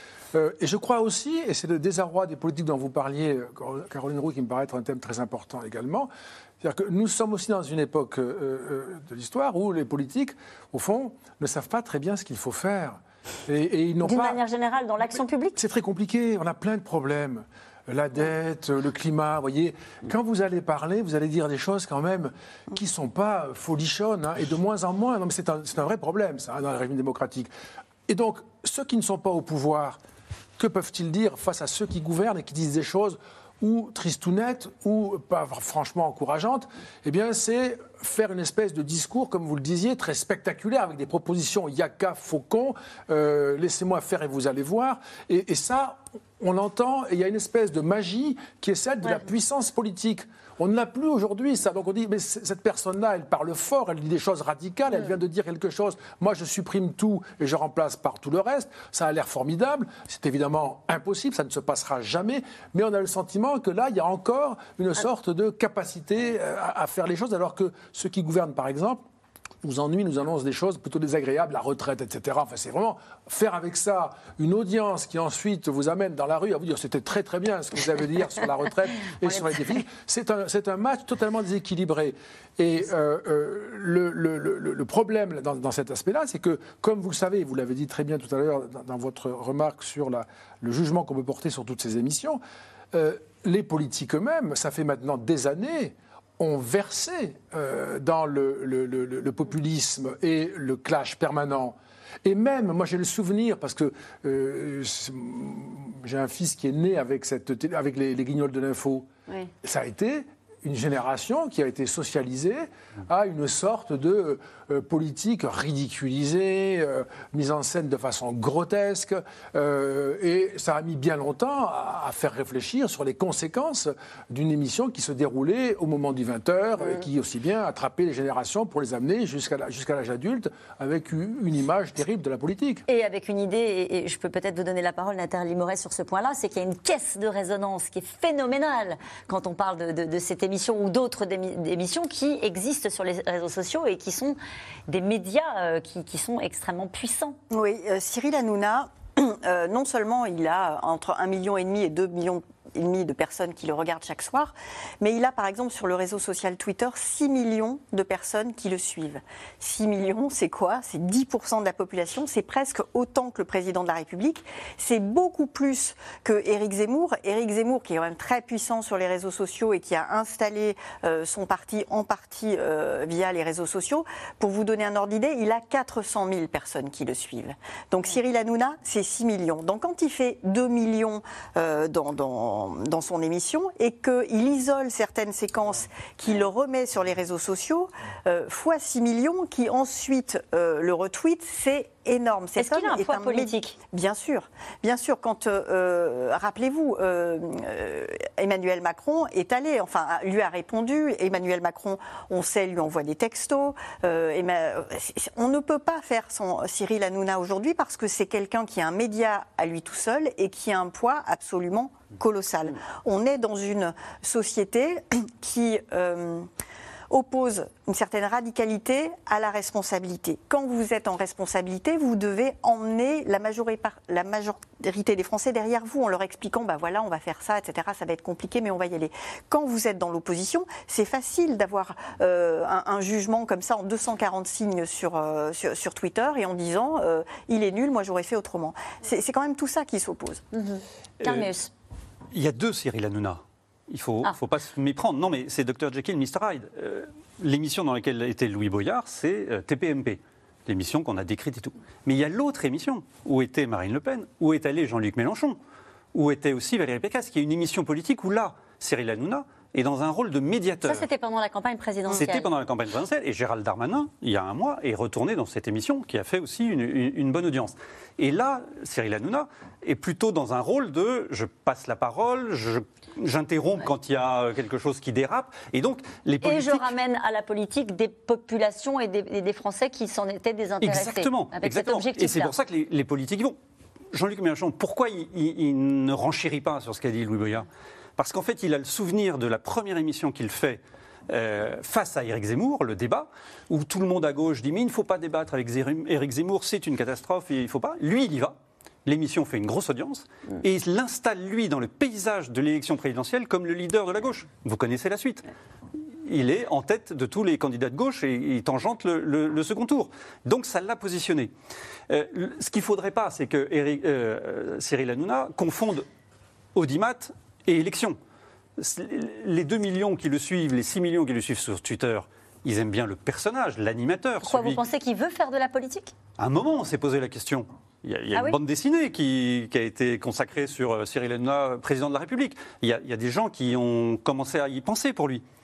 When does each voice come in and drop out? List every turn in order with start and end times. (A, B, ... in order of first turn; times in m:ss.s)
0:00.3-0:06.1 A
0:06.6-0:14.4 A
0:14.0-0:15.6 B
0:15.6-0:27.5 A
0:28.1-0:30.0 A
0:30.6-1:09.0 A
1:09.6-1:32.4 A
1:32.9-1:49.1 A
1:49.6-2:12.8 A
2:12.9-2:24.4 B
2:24.9-2:27.4 B
2:27.5-3:36.5 C
3:12.6-3:13.8 B
3:37.1-4:00.4 C
4:00.5-4:01.7 B
4:01.2-4:01.5 D
4:02.3-4:15.6 D
4:16.1-4:21.1 D
4:20.8-4:22.5 B
4:22.1-4:36.9 D
4:36.4-4:42.5 B
4:40.8-4:43.6 D
4:44.1-5:05.5 D
5:06.2-5:11.5 D
5:12.1-5:16.0 D
5:16.7-5:18.2 D
5:18.8-5:24.8 D
5:24.4-5:26.1 B
5:26.4-5:35.4 D